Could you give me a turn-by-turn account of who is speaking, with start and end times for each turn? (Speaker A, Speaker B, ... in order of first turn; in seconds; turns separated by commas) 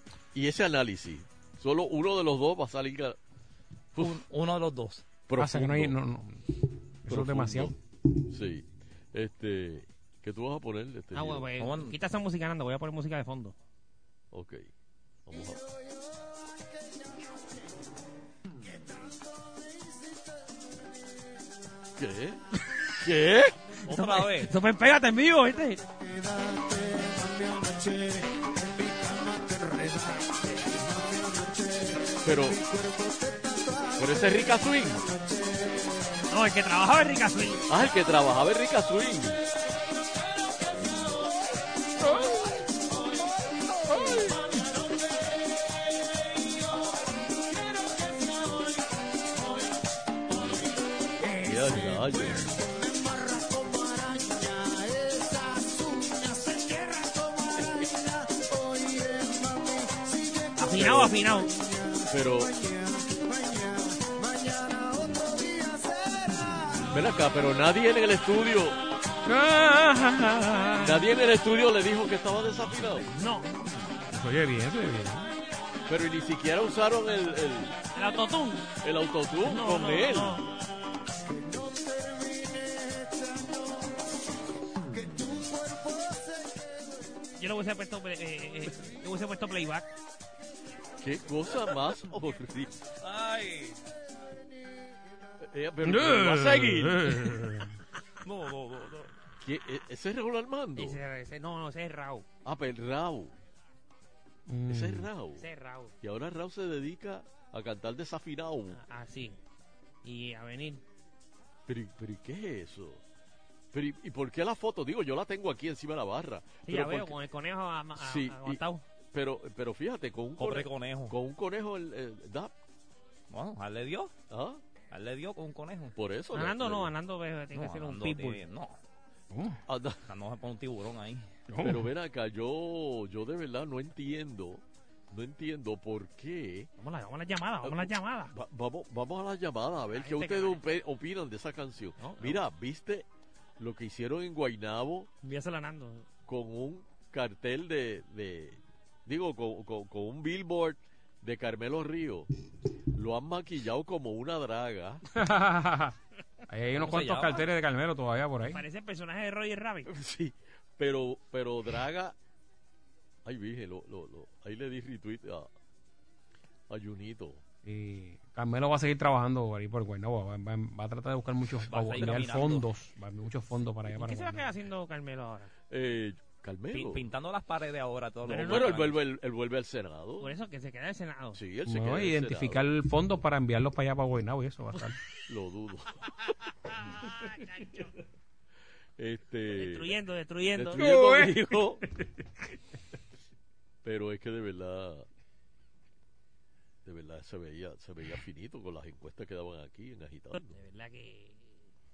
Speaker A: 0.3-3.2, Speaker B: 4.0-5.0, Speaker A: 5.3-6.0, Speaker C: 5.4-6.4, Speaker C: 7.0-7.7, Speaker A: 7.1-7.7, Speaker A: 8.3-11.5, Speaker D: 11.1-13.6, Speaker B: 11.6-12.0, Speaker A: 14.3-14.7, Speaker A: 15.3-15.6, Speaker A: 22.0-22.4, Speaker A: 23.0-23.6, Speaker B: 23.9-24.5, Speaker D: 23.9-25.8, Speaker A: 32.2-32.6, Speaker A: 34.0-35.0, Speaker D: 36.3-37.6, Speaker A: 37.7-39.4, Speaker A: 51.3-52.5, Speaker D: 60.6-61.5, Speaker A: 60.7-61.2, Speaker A: 62.1-62.6, Speaker A: 66.9-68.8, Speaker C: 69.3-71.0, Speaker A: 70.8-73.1, Speaker D: 73.1-73.6, Speaker C: 74.1-75.3, Speaker A: 75.9-77.8, Speaker D: 78.0-78.7, Speaker A: 78.8-80.4, Speaker D: 79.4-80.5, Speaker D: 87.4-89.9, Speaker A: 91.0-92.8, Speaker B: 93.0-93.8, Speaker A: 95.4-97.3, Speaker C: 95.8-97.7, Speaker B: 98.2-99.1, Speaker A: 99.4-101.0, Speaker D: 100.8-102.2, Speaker A: 102.5-103.3, Speaker C: 104.5-105.1, Speaker A: 104.7-105.5, Speaker D: 105.4-105.9, Speaker A: 106.0-108.8, Speaker D: 108.7-109.4, Speaker D: 110.0-110.8, Speaker A: 111.7-113.0, Speaker A: 113.7-117.2, Speaker D: 116.7-118.8, Speaker A: 118.0-122.5, Speaker B: 120.4-121.2, Speaker B: 123.3-124.1, Speaker A: 124.3-124.6, Speaker B: 124.9-126.0, Speaker A: 126.0-126.9, Speaker D: 126.3-128.4, Speaker B: 127.5-128.8, Speaker C: 129.3-129.6, Speaker A: 129.7-130.0, Speaker B: 130.1-131.3, Speaker C: 131.5-131.9, Speaker A: 131.6-136.7, Speaker D: 136.8-138.3, Speaker A: 137.6-143.1, Speaker D: 139.9-140.6, Speaker D: 142.0-142.4, Speaker A: 143.6-145.1, Speaker D: 145.2-146.1, Speaker A: 146.3-152.3, Speaker A: 152.9-155.0, Speaker C: 155.2-155.9, Speaker C: 156.5-158.6, Speaker B: 156.8-157.4, Speaker D: 158.5-159.9, Speaker A: 159.9-162.2, Speaker A: 163.2-165.5, Speaker A: 166.7-167.4, Speaker C: 167.7-174.5, Speaker B: 171.7-172.7, Speaker D: 173.9-175.5, Speaker A: 175.7-177.0, Speaker B: 176.7-179.0, Speaker A: 178.3-180.3, Speaker D: 178.3-178.8, Speaker D: 180.2-181.4, Speaker A: 181.3-182.6, Speaker C: 181.7-185.0, Speaker A: 185.3-185.9, Speaker D: 187.0-187.9, Speaker A: 189.0-190.0, Speaker D: 189.5-190.8, Speaker A: 190.5-191.8, Speaker C: 190.8-191.4, Speaker A: 193.8-195.1, Speaker A: 196.8-200.6, Speaker D: 200.3-201.6